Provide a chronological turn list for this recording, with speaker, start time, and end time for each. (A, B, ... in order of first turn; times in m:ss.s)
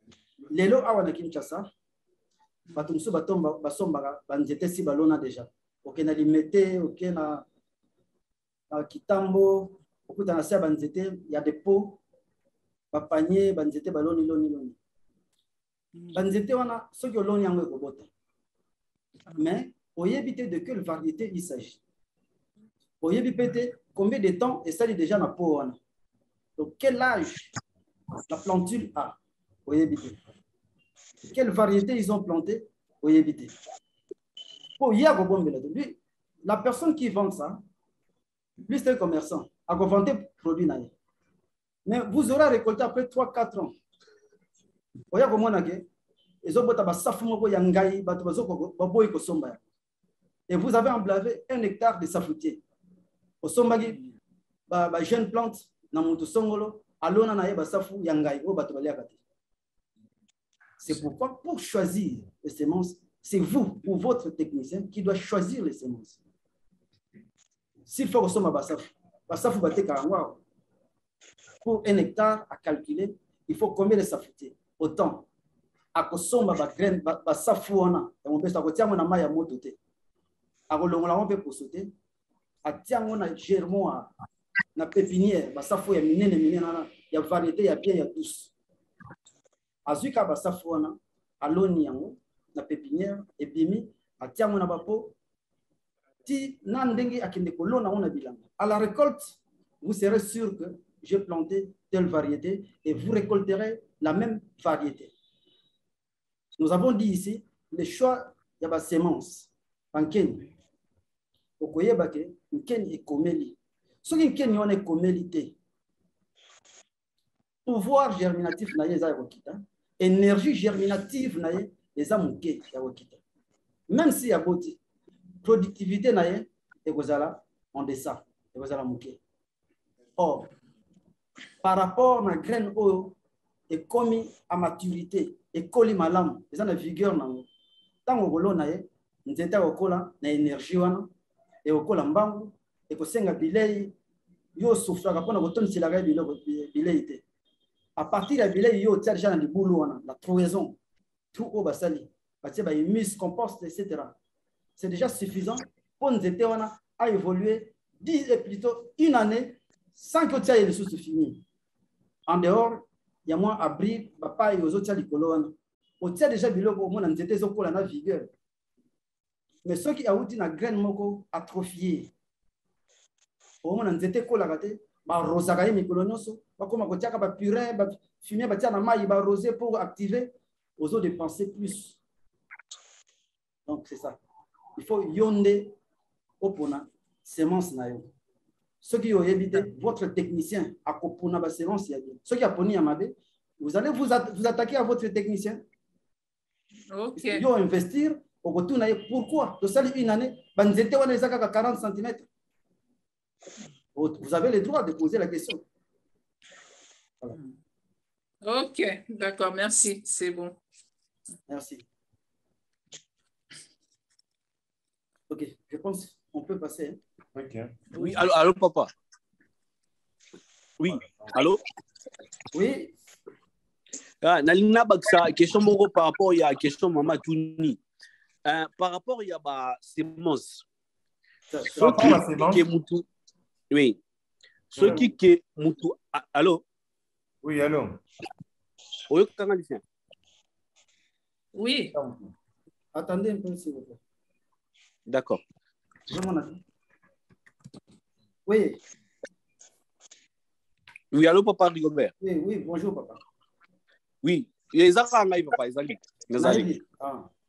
0:00.5-0:01.7 A
0:02.7-0:07.4 A
0:08.7-0:12.0 A
0:12.9-0:14.8 A
0:16.1-0:18.1 A
0:19.4-0:21.8 A
0:23.0-0:25.8 A
0:26.6-0:27.5 A
0:28.3-0:30.2 A
0:31.3-0:33.6 A
0:34.8-0:37.6 A
0:38.6-0:40.9 A
0:41.8-0:43.7 A
0:45.1-0:45.8 A
0:46.4-0:49.6 A
0:50.5-0:52.6 A
0:53.4-0:54.0 A
0:54.7-0:59.2 A
1:00.8-1:06.2 A
1:07.9-1:10.4 A
1:11.6-1:15.2 A
1:15.9-1:19.8 A
1:20.7-1:21.9 A
1:22.6-1:24.1 A
1:24.7-1:28.5 A
1:29.8-1:35.1 A
1:36.2-1:45.1 A
1:46.6-1:50.4 A
1:51.6-1:55.5 A
1:57.6-2:03.2 A
2:03.9-2:04.8 A
2:05.4-2:09.2 A
2:10.2-2:10.5 A
2:11.6-2:13.2 A
2:13.7-2:17.5 A
2:18.0-2:21.1 A
2:21.6-2:23.9 A
2:24.6-2:27.2 A
2:28.0-2:30.8 A
2:31.3-2:34.1 A
2:34.8-2:41.4 A
2:42.3-2:48.3 A
2:49.6-2:52.1 A
2:53.6-3:02.0 A
3:03.6-3:04.2 A
3:04.8-3:05.7 A
3:06.4-3:08.1 A
3:08.8-3:15.6 A
3:16.9-3:17.4 B
3:17.2-3:22.3 A
3:23.9-3:25.6 A
3:28.4-3:30.6 B
3:31.5-3:31.8 A
3:35.3-3:37.0 A
3:37.4-3:37.7 C
3:37.9-3:38.9 D
3:40.8-3:41.6 D
3:42.5-3:42.9 A
3:44.2-3:47.8 D
3:48.4-3:50.6 D
3:51.5-3:52.2 A
3:51.7-3:53.1 D
3:51.8-3:52.6 C
3:53.7-3:54.0 D
3:54.7-3:56.6 D
3:54.8-3:55.0 C
3:57.4-3:58.0 C
3:59.1-3:59.8 D
4:01.5-4:01.9 B
4:01.9-4:02.3 A
4:02.9-4:04.0 A
4:05.1-4:05.4 D
4:06.1-4:06.6 A
4:08.4-4:08.8 A
4:11.1-4:12.1 D
4:12.2-4:13.2 A
4:14.2-4:16.7 D
4:16.4-4:17.3 A